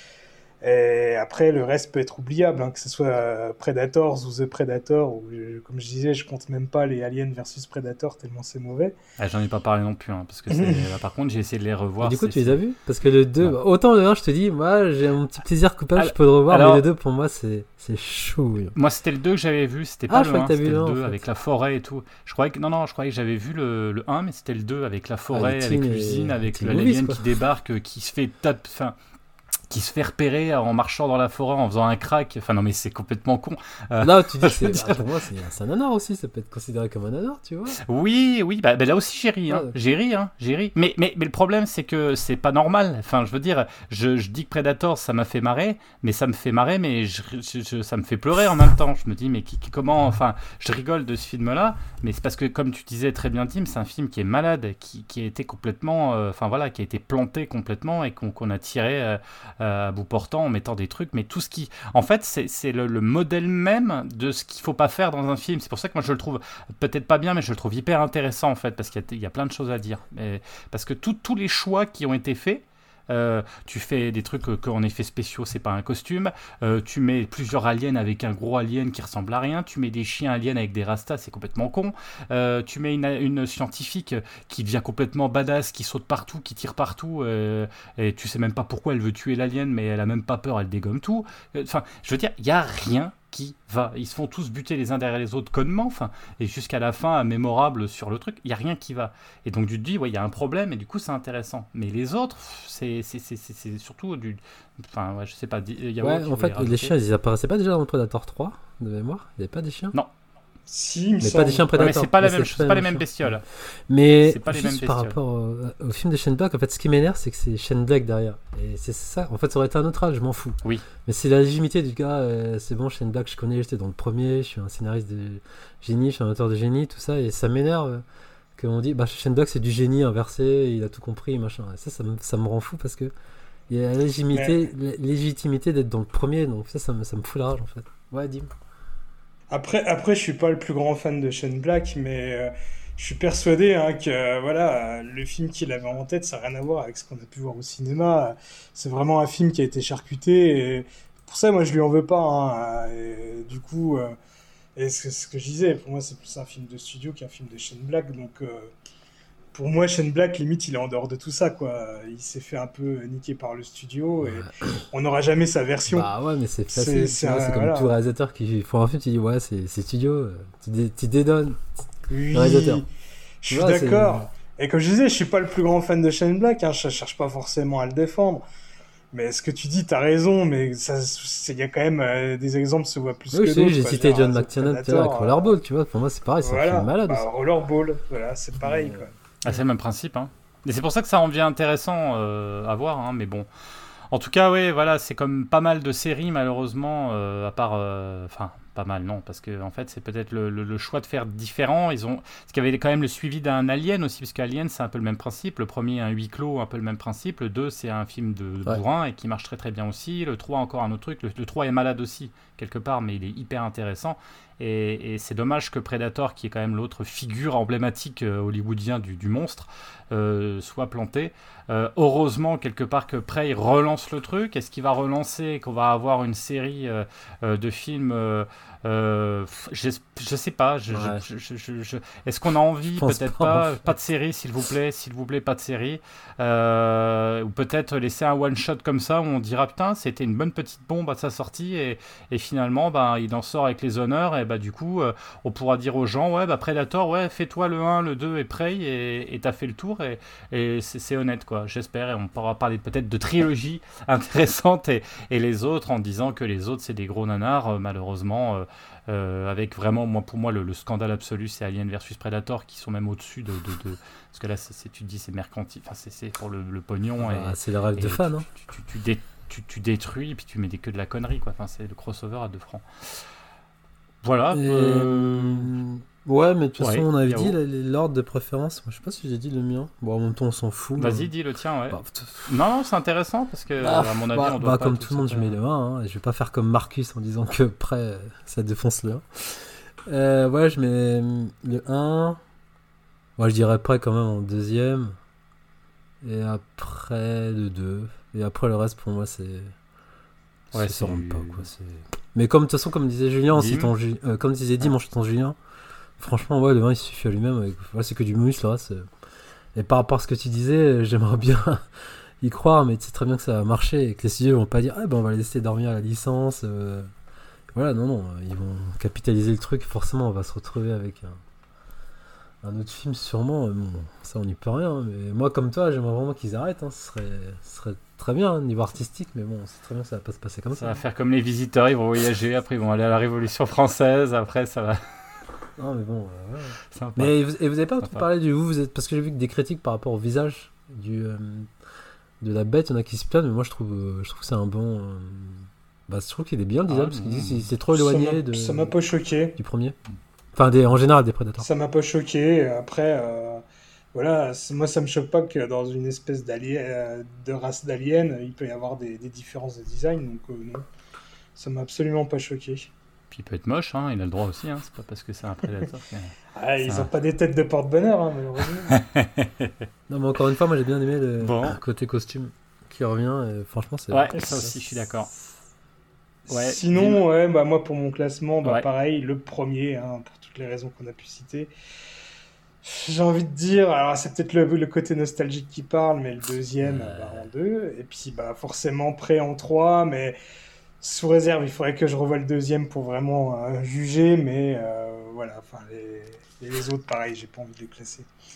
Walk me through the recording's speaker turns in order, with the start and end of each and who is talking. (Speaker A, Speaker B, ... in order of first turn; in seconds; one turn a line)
Speaker A: 0.6-8.9
Speaker B: 9.2-12.6
Speaker A: 10.5-10.9
Speaker C: 12.0-18.8
Speaker B: 16.0-16.8
Speaker B: 18.8-28.9
Speaker C: 20.1-21.3
Speaker C: 25.3-27.2
Speaker B: 29.7-35.0
Speaker C: 34.0-37.8
Speaker B: 37.8-106.9
Speaker C: 39.5-39.7
Speaker C: 106.0-109.9
Speaker A: 110.7-111.7
Speaker C: 111.2-128.0
Speaker B: 111.7-113.4
Speaker B: 114.2-115.2
Speaker C: 128.6-133.1
Speaker C: 133.7-138.5
Speaker A: 134.3-134.7
Speaker A: 139.5-154.2
Speaker A: 154.8-158.7
Speaker A: 159.5-166.1
Speaker C: 164.2-164.8
Speaker C: 165.9-171.7
Speaker A: 166.7-168.0
Speaker A: 172.1-172.9
Speaker C: 172.3-172.8
Speaker A: 173.4-178.4
Speaker C: 173.5-174.3
Speaker A: 179.1-185.6
Speaker C: 183.3-187.3
Speaker A: 186.4-189.1
Speaker C: 188.6-189.1
Speaker B: 189.4-193.5
Speaker B: 194.1-273.2
Speaker C: 230.9-231.2
Speaker C: 232.9-233.9
Speaker C: 267.2-268.5
Speaker B: 274.2-275.7
Speaker C: 274.5-281.3
Speaker B: 276.8-277.6
Speaker B: 281.0-285.5
Speaker C: 281.9-282.6
Speaker C: 283.8-292.4
Speaker C: 293.4-295.2
Speaker C: 296.2-299.7
Speaker B: 300.7-301.7
Speaker C: 300.7-305.6
Speaker B: 303.5-303.9
Speaker C: 306.2-309.1
Speaker C: 309.7-317.1
Speaker C: 317.7-321.4
Speaker C: 322.6-331.0
Speaker B: 330.8-335.0
Speaker C: 335.8-341.7
Speaker B: 336.9-337.4
Speaker C: 342.4-348.9
Speaker B: 346.9-347.7
Speaker A: 347.9-349.6
Speaker C: 349.6-350.0
Speaker C: 350.6-351.7
Speaker A: 351.6-360.9
Speaker A: 361.6-362.9
Speaker B: 363.3-367.1
Speaker A: 366.6-369.0
Speaker B: 368.9-369.8
Speaker C: 370.1-374.8
Speaker B: 371.4-371.8
Speaker B: 374.1-375.3
Speaker A: 376.5-381.7
Speaker B: 376.5-377.2
Speaker A: 382.8-390.4
Speaker C: 386.8-387.5
Speaker A: 391.0-398.3